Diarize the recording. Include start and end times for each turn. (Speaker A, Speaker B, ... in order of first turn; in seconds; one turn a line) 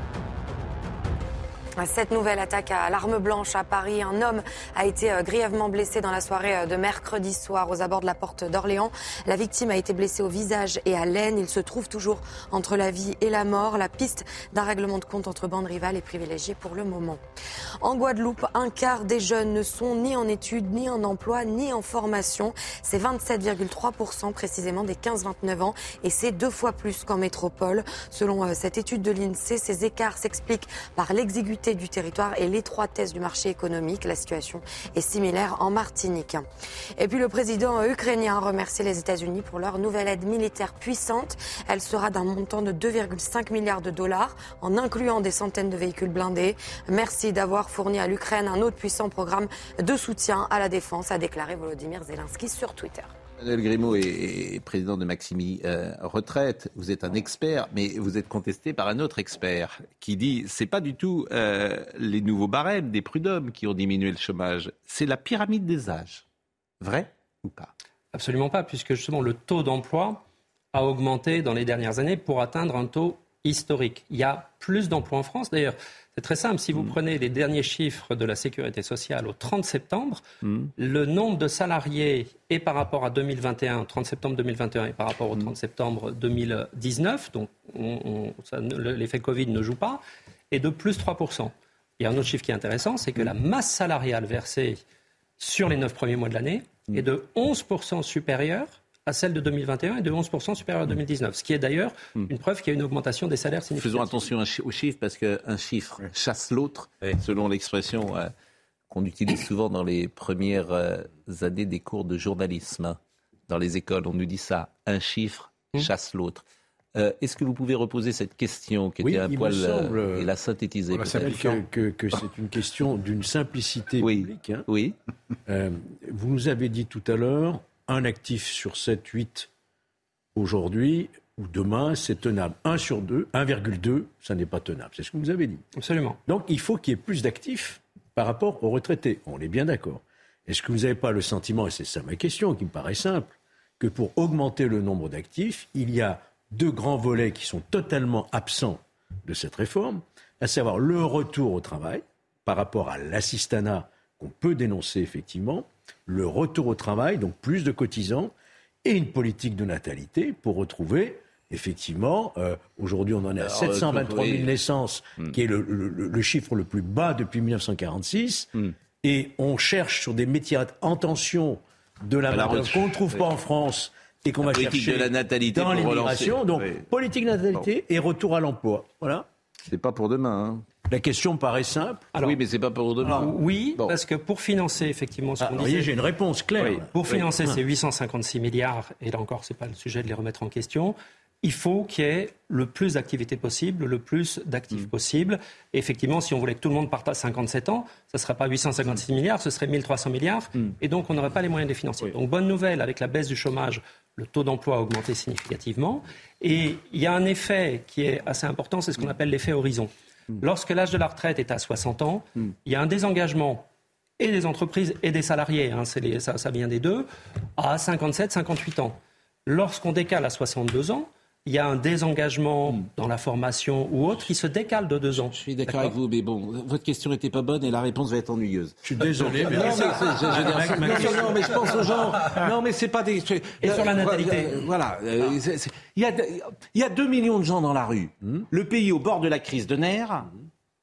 Speaker A: 1.8-17.2
Speaker A: 17.8-36.5
Speaker A: 37.0-53.1
Speaker B: 53.4-66.2
Speaker B: 66.8-67.7
Speaker C: 68.1-70.2
Speaker C: 70.7-80.2
Speaker B: 80.4-80.7
Speaker C: 80.8-94.8
Speaker C: 95.4-104.3
Speaker B: 103.8-108.3
Speaker B: 108.9-116.4
Speaker B: 117.0-121.6
Speaker D: 119.0-120.3
Speaker D: 120.9-124.7
Speaker B: 124.0-125.0
Speaker D: 125.5-129.5
Speaker D: 130.3-135.6
Speaker C: 135.8-136.2
Speaker D: 136.3-158.3
Speaker D: 158.8-168.5
Speaker B: 163.4-164.5
Speaker D: 169.0-179.3
Speaker B: 172.3-173.3
Speaker B: 174.4-176.9
Speaker B: 179.7-180.7
Speaker D: 180.9-182.1
Speaker C: 182.1-182.4
Speaker B: 182.2-183.9
Speaker C: 183.1-185.9
Speaker D: 185.4-187.6
Speaker B: 186.6-186.8
Speaker C: 186.9-213.6
Speaker C: 214.2-225.9
Speaker B: 225.1-240.3
Speaker D: 228.8-232.5
Speaker C: 233.6-234.6